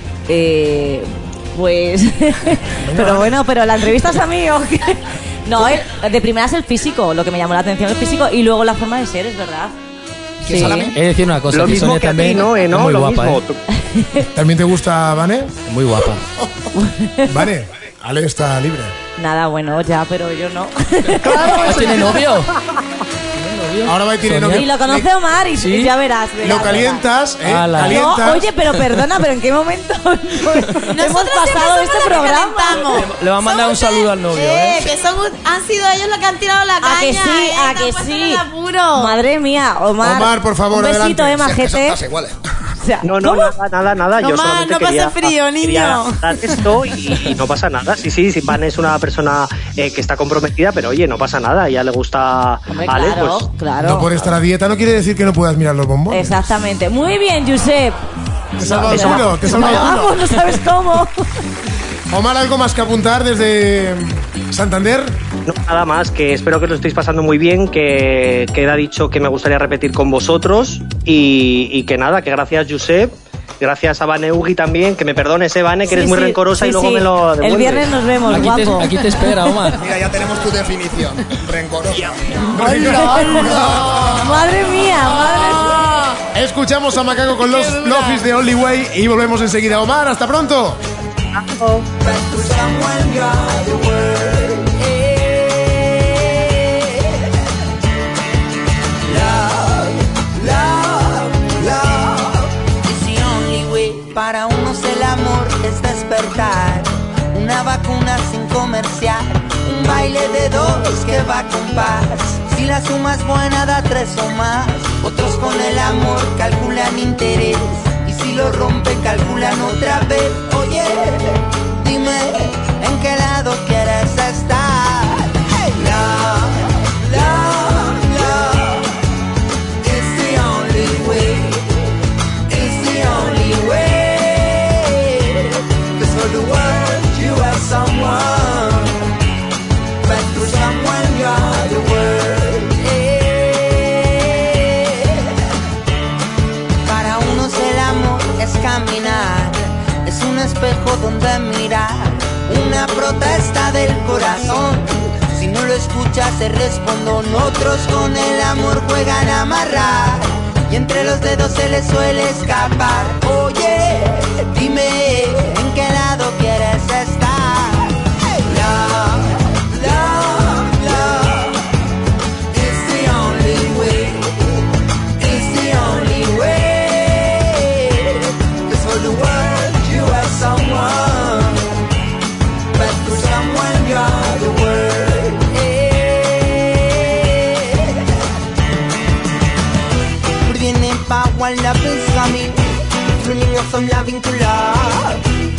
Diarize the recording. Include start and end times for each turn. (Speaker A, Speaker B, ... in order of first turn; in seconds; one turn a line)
Speaker A: 0.3-9.7
Speaker B: 2.8-3.4
Speaker C: 10.4-11.0
Speaker A: 10.4-10.9
Speaker D: 10.9-13.4
Speaker E: 11.5-13.6
Speaker A: 13.8-14.3
Speaker B: 14.3-15.6
Speaker D: 15.7-16.2
Speaker A: 16.8-17.4
Speaker B: 17.3-19.0
Speaker A: 19.2-22.1
Speaker D: 21.2-22.5
Speaker D: 23.3-24.7
Speaker B: 23.9-25.1
Speaker A: 24.5-27.1
Speaker D: 25.6-25.9
Speaker B: 26.4-28.5
Speaker D: 27.4-28.2
Speaker A: 27.8-32.9
Speaker F: 30.9-39.2
Speaker D: 32.7-34.9
Speaker A: 36.8-38.4
Speaker A: 38.9-42.0
Speaker B: 40.0-41.5
Speaker C: 41.4-42.4
Speaker A: 42.8-43.5
Speaker E: 43.0-53.5
Speaker F: 44.2-46.7
Speaker A: 52.7-54.2
Speaker B: 53.8-56.5
Speaker A: 56.1-58.0
Speaker B: 58.6-60.2
Speaker A: 58.6-61.2
Speaker E: 58.9-59.2
Speaker B: 62.1-65.2
Speaker E: 65.5-78.0
Speaker A: 75.9-78.9
Speaker D: 78.3-79.8
Speaker C: 79.8-82.8
Speaker B: 82.5-83.3
Speaker A: 82.6-85.8
Speaker F: 82.6-84.1
Speaker C: 83.4-84.1
Speaker F: 85.0-86.2
Speaker B: 86.3-90.8
Speaker F: 87.4-88.2
Speaker G: 92.0-97.3
Speaker G: 99.0-128.9
Speaker G: 129.8-131.7
Speaker G: 132.5-139.0
Speaker G: 140.0-145.3
Speaker G: 146.9-171.6
Speaker G: 172.5-174.3
Speaker G: 175.2-181.7
Speaker G: 182.7-188.1
Speaker G: 190.4-195.2